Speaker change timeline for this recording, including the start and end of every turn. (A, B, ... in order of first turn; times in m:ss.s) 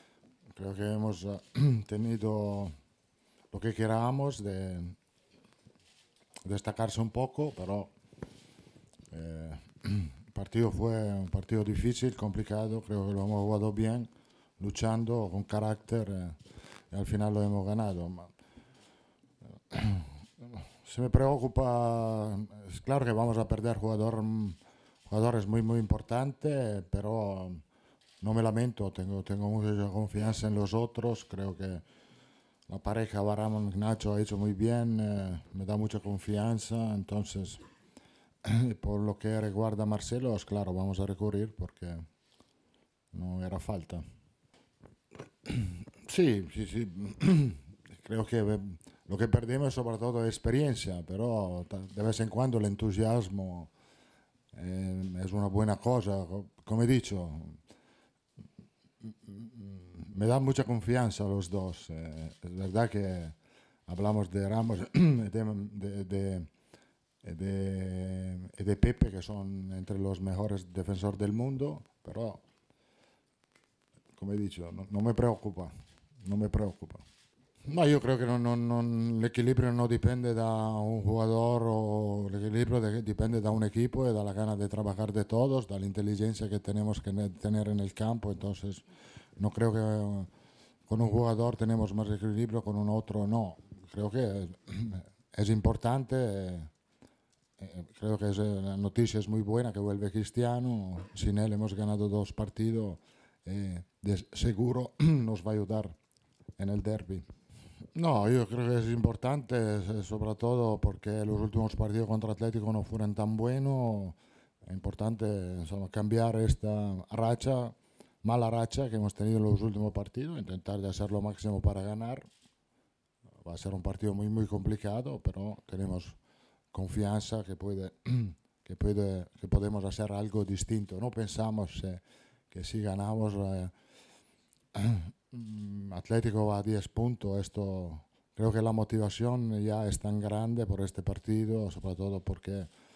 0:00.5-0:02.8 A
0:03.5-0:05.0 A
0:06.4-0:07.9 A
0:09.1-0:16.4 A
0:16.9-0:18.3 A
0:19.7-0:27.6 A
0:28.2-0:31.8 A
0:32.7-0:37.6 A
0:38.4-0:42.0 A
0:43.1-0:44.0 A
0:45.4-0:53.7 A
0:54.5-0:57.6 A
0:59.0-1:03.4 A
1:03.9-1:06.5 A
1:07.2-1:12.4 A
1:14.2-1:17.0 A
1:17.7-1:28.8 A
1:29.4-1:30.3 A
1:30.9-1:36.7 A
1:37.6-1:46.0 A
1:46.6-1:47.3 A
1:47.9-2:02.3 A
2:03.4-2:06.2 A
2:06.7-2:13.7 A
2:14.7-2:22.7 A